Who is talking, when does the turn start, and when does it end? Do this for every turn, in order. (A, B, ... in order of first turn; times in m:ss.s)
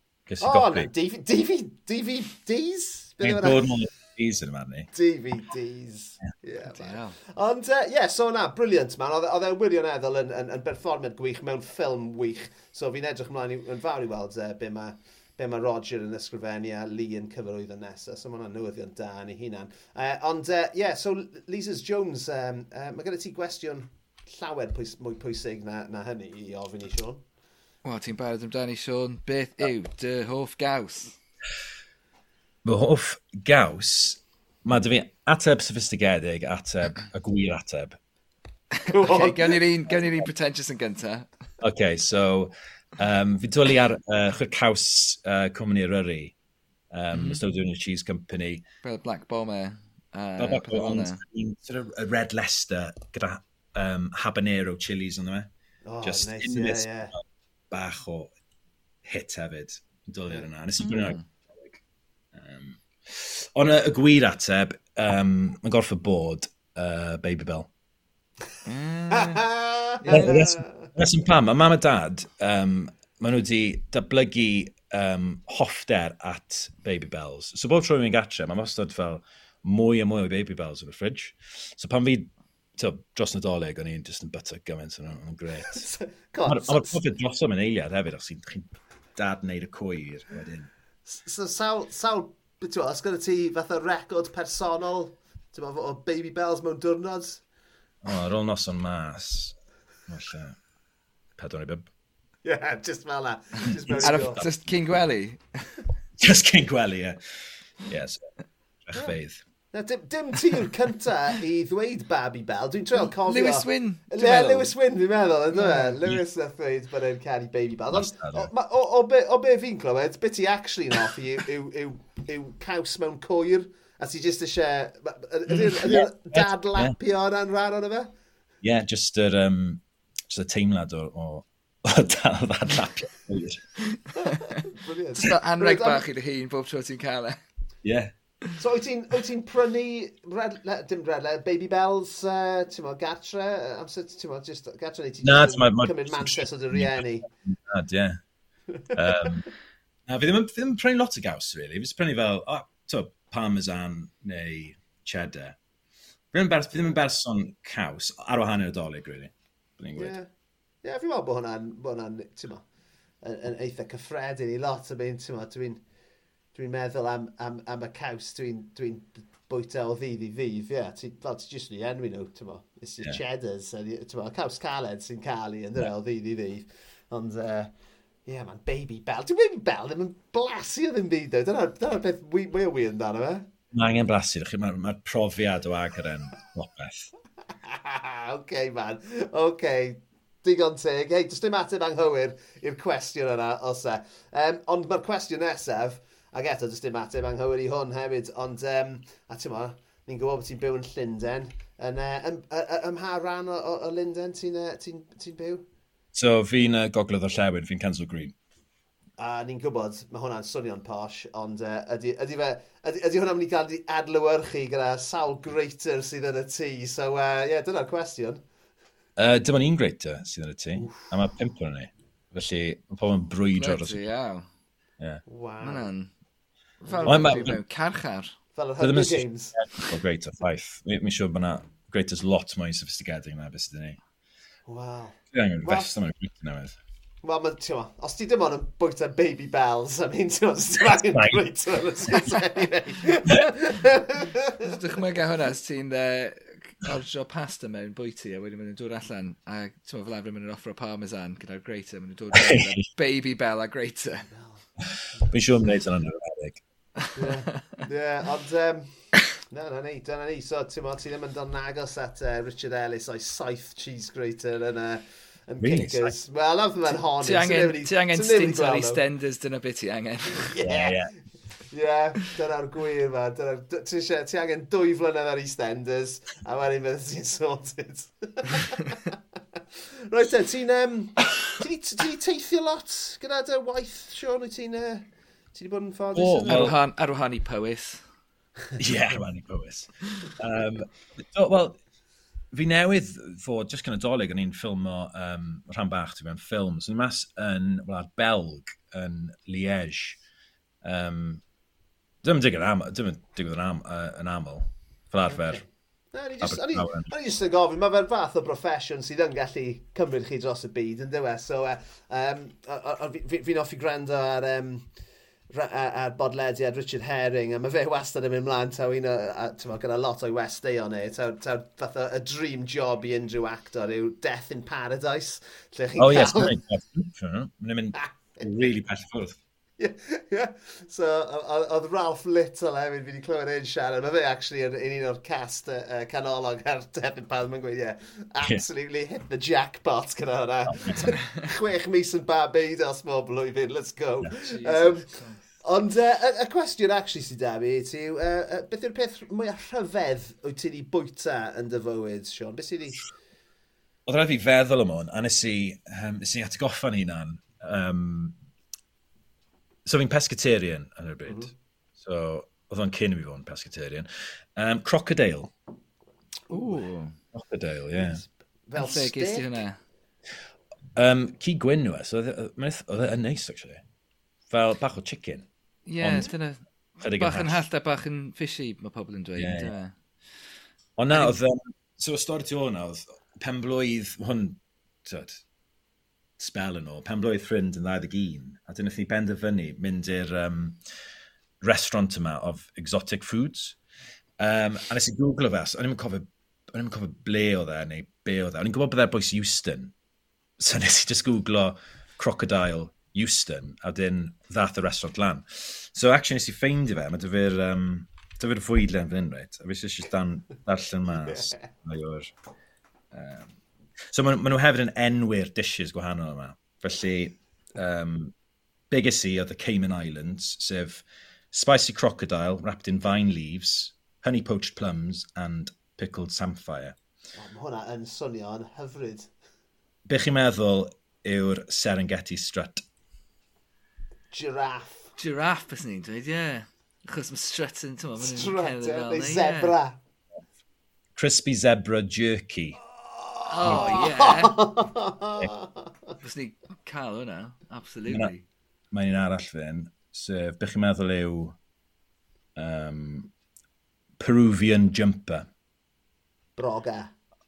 0:00.3-0:00.9 A
0:00.4-0:03.7 B
0:03.2-0:04.9 A
0:04.9-0:27.2 B
0:06.7-0:07.2 C
0:27.8-0:31.2 C
0:32.6-0:38.0 A
0:38.8-0:41.3 C
0:38.9-0:39.6 B
0:41.6-0:46.3 A
0:46.9-0:48.6 A
0:47.1-0:47.4 C
0:48.8-0:51.2 C
0:50.4-0:55.5 A
0:55.9-0:57.1 B
0:56.0-0:58.3 A
0:59.0-1:01.8 A
1:00.8-1:01.2 C
1:02.3-1:07.7 A
1:08.7-1:09.4 C
1:09.1-1:10.9 B
1:10.0-1:10.4 C
1:10.1-1:25.8 A
1:25.6-1:27.0 B
1:26.5-1:30.7 A
1:31.1-1:37.4 B
1:38.0-1:39.6 A
1:40.1-1:40.6 A
1:41.4-1:41.9 A
1:42.4-1:44.4 B
1:43.7-1:44.5 A
1:44.0-1:45.7 C
1:46.2-1:47.2 A
1:47.8-1:48.3 A
1:48.9-1:49.4 A
1:49.7-2:08.1 B
1:53.0-1:54.7 C
1:55.5-1:56.0 C
1:57.9-1:58.5 A
2:05.5-2:07.0 A
2:08.6-2:13.6 A
2:14.2-2:16.0 B
2:15.2-2:17.4 C
2:17.8-2:18.1 A
2:18.6-2:27.3 B
2:25.2-2:28.2 A
2:28.7-2:29.3 B
2:28.9-2:29.5 A
2:30.1-2:35.6 A
2:36.3-2:40.2 A
2:40.0-2:40.3 B
2:40.8-2:42.7 B
2:43.2-2:45.8 B
2:46.6-2:57.7 B
2:58.3-3:03.5 B
3:03.7-3:07.1 A
3:07.6-3:25.6 B
3:26.1-3:28.4 A
3:29.2-3:38.4 B
3:39.2-3:44.0 A
3:40.8-3:41.1 B
3:43.6-3:44.5 C
3:45.3-3:45.9 B
3:45.6-3:46.1 C
3:46.8-3:48.3 C
3:46.8-3:47.6 B
3:47.1-3:47.6 A
3:48.6-3:49.6 B
3:48.8-3:54.0 A
3:54.7-3:55.9 B
3:55.3-3:56.8 A
3:57.2-4:04.7 B
4:00.9-4:01.4 A
4:04.6-4:14.3 C
4:12.3-4:12.8 A
4:15.3-4:16.6 A
4:17.0-4:17.4 C
4:17.2-4:29.0 B
4:25.6-4:26.1 A
4:27.1-4:30.5 C
4:30.4-4:31.0 B
4:30.6-4:31.1 A
4:31.7-4:39.1 B
4:40.1-4:46.8 B
4:46.1-4:46.8 A
4:46.5-4:48.0 C
4:48.8-4:51.8 A
4:52.5-5:00.2 A
5:00.8-5:01.4 A
5:02.2-5:05.6 A
5:05.3-5:14.9 B
5:06.4-5:07.1 A
5:15.5-5:26.6 B
5:26.0-5:29.4 A
5:28.0-5:28.5 B
5:29.8-5:53.1 B
5:40.7-5:41.0 A
5:44.4-5:45.5 C
5:54.1-5:58.4 A
5:59.8-6:05.5 A
6:01.3-6:01.5 B
6:06.5-6:07.2 C
6:07.3-6:08.2 A
6:08.0-6:09.6 B
6:08.8-6:09.8 C
6:11.0-6:13.8 A
6:14.5-6:15.5 A
6:15.9-6:20.0 C
6:16.0-6:16.3 A
6:17.0-6:17.6 A
6:19.4-6:19.7 A
6:21.0-6:25.4 A
6:26.4-6:30.8 A
6:31.6-6:33.8 A
6:34.4-6:39.9 A
6:40.6-6:52.3 A
6:51.1-6:51.7 B
6:53.1-6:53.6 A
6:54.1-6:58.3 A
6:58.9-7:07.0 A
7:07.4-7:09.3 B
7:10.1-7:12.8 A
7:14.3-7:15.1 B
7:15.2-7:19.8 C
7:18.2-7:20.0 B
7:21.2-7:22.8 A
7:23.0-7:25.9 B
7:23.5-7:24.6 C
7:23.6-7:24.0 A
7:26.2-7:28.4 C
7:28.9-7:31.6 A
7:32.6-7:33.3 A
7:34.2-7:35.5 A
7:36.6-7:37.1 B